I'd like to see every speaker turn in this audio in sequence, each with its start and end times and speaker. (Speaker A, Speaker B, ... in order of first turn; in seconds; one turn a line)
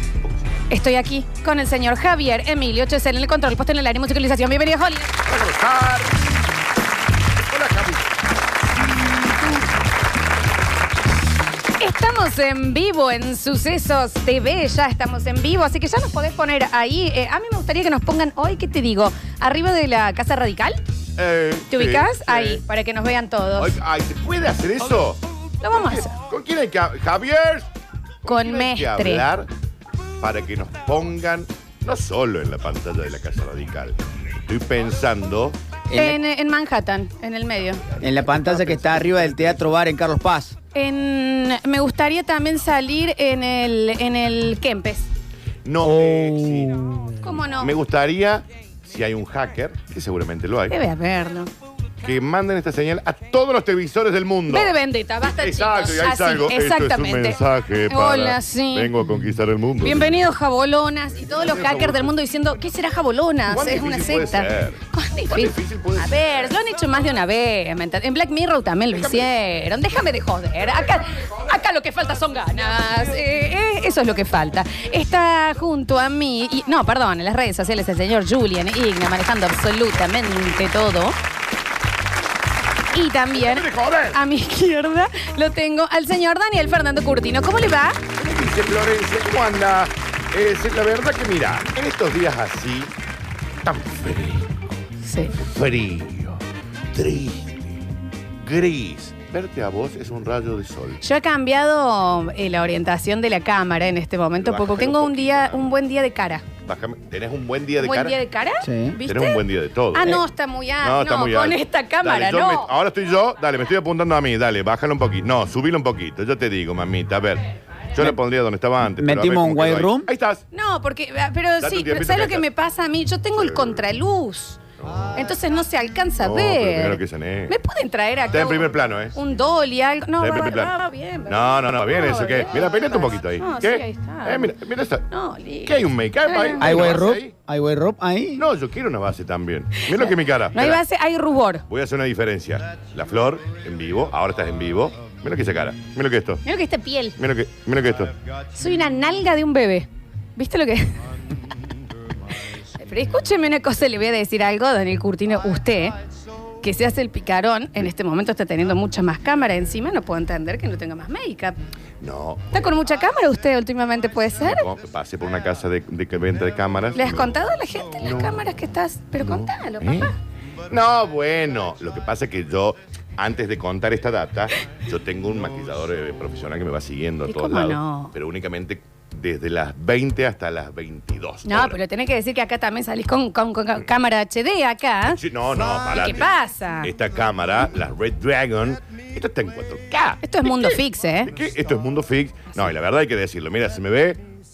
Speaker A: 0.7-5.1
Speaker B: 5.2-6.3
Speaker B: 7.5-8.1
Speaker A: 11.8-20.8
Speaker B: 21.2-22.6
Speaker A: 21.7-23.7
Speaker B: 23.6-27.7
Speaker A: 25.6-26.2
Speaker B: 28.2-29.5
Speaker A: 28.2-29.2
Speaker B: 30.2-35.5
Speaker C: 35.9-36.2
Speaker A: 35.9-37.9
Speaker C: 38.0-40.5
Speaker B: 38.0-39.7
Speaker A: 40.7-45.1
Speaker B: 45.6-46.8
Speaker C: 45.8-47.1
Speaker A: 47.2-47.7
Speaker B: 47.5-50.8
Speaker A: 50.7-51.5
Speaker B: 52.0-54.7
Speaker A: 54.5-58.9
Speaker B: 55.2-60.2
Speaker A: 59.8-81.2
Speaker B: 61.3-62.1
Speaker B: 63.5-66.6
Speaker B: 68.9-69.2
Speaker A: 82.9-88.0
Speaker B: 83.3-84.2
Speaker B: 88.1-92.9
Speaker B: 93.6-94.5
Speaker A: 95.0-95.3
Speaker B: 95.3-96.4
Speaker B: 96.9-97.8
Speaker B: 98.4-101.0
Speaker A: 101.0-106.5
Speaker B: 104.4-105.7
Speaker B: 106.7-108.2
Speaker A: 107.8-112.7
Speaker C: 108.6-109.0
Speaker B: 109.1-110.2
Speaker B: 110.8-120.4
Speaker C: 119.0-120.1
Speaker A: 120.5-124.6
Speaker B: 121.6-122.5
Speaker B: 123.3-123.9
Speaker B: 124.8-125.2
Speaker A: 125.1-134.5
Speaker B: 126.2-127.5
Speaker B: 128.3-129.2
Speaker B: 130.2-130.7
Speaker B: 131.3-135.1
Speaker A: 135.1-137.1
Speaker B: 135.6-137.3
Speaker C: 136.6-138.4
Speaker B: 138.4-140.8
Speaker A: 139.8-141.6
Speaker B: 141.7-146.4
Speaker A: 146.4-147.2
Speaker B: 147.2-148.1
Speaker A: 148.5-151.0
Speaker A: 152.8-155.9
Speaker A: 156.6-161.6
Speaker B: 162.0-162.8
Speaker A: 162.5-164.7
Speaker B: 164.4-167.3
Speaker A: 166.9-170.1
Speaker B: 168.0-168.4
Speaker B: 169.2-170.1
Speaker B: 170.7-181.8
Speaker A: 177.3-178.1
Speaker A: 181.4-185.2
Speaker B: 185.1-186.3
Speaker A: 185.9-186.9
Speaker B: 186.8-194.2
Speaker A: 190.2-191.3